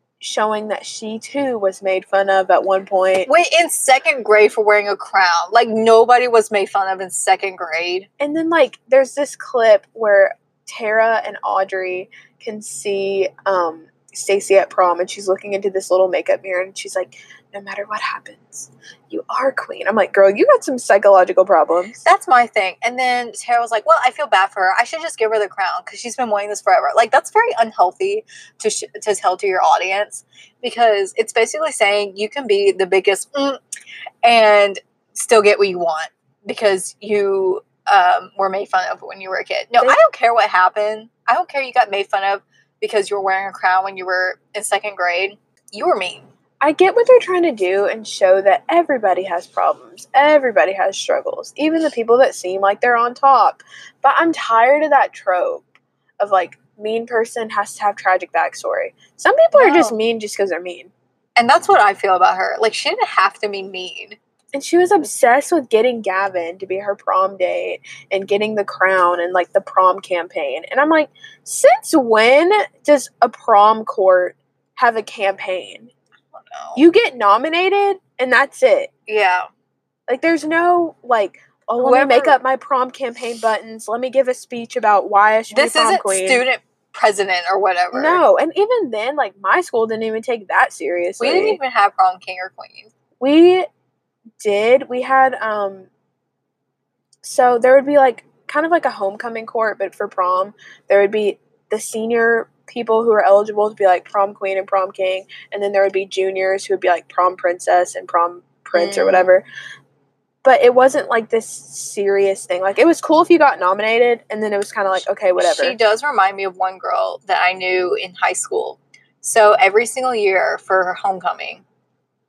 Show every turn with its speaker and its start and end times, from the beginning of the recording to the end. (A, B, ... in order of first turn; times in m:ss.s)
0:00.2-0:03.3 A
0:03.3-0:08.1 B
0:08.2-0:22.0 A
0:22.0-0:33.6 B
0:34.2-0:46.3 B
0:46.6-1:00.9 A
0:59.5-1:00.0 B
1:01.4-1:04.2 B
1:04.5-1:15.9 A
1:16.3-1:16.8 B
1:16.8-1:18.9 A
1:19.1-1:19.5 B
1:20.1-1:26.4 A
1:21.8-1:22.4 B
1:25.5-1:28.2 B
1:27.9-1:31.6 A
1:31.2-1:32.9 B
1:33.2-1:33.7 A
1:34.4-1:35.9 A
1:37.2-1:49.4 A
1:48.7-1:49.3 B
1:50.4-1:55.8 A
1:55.4-2:01.6 B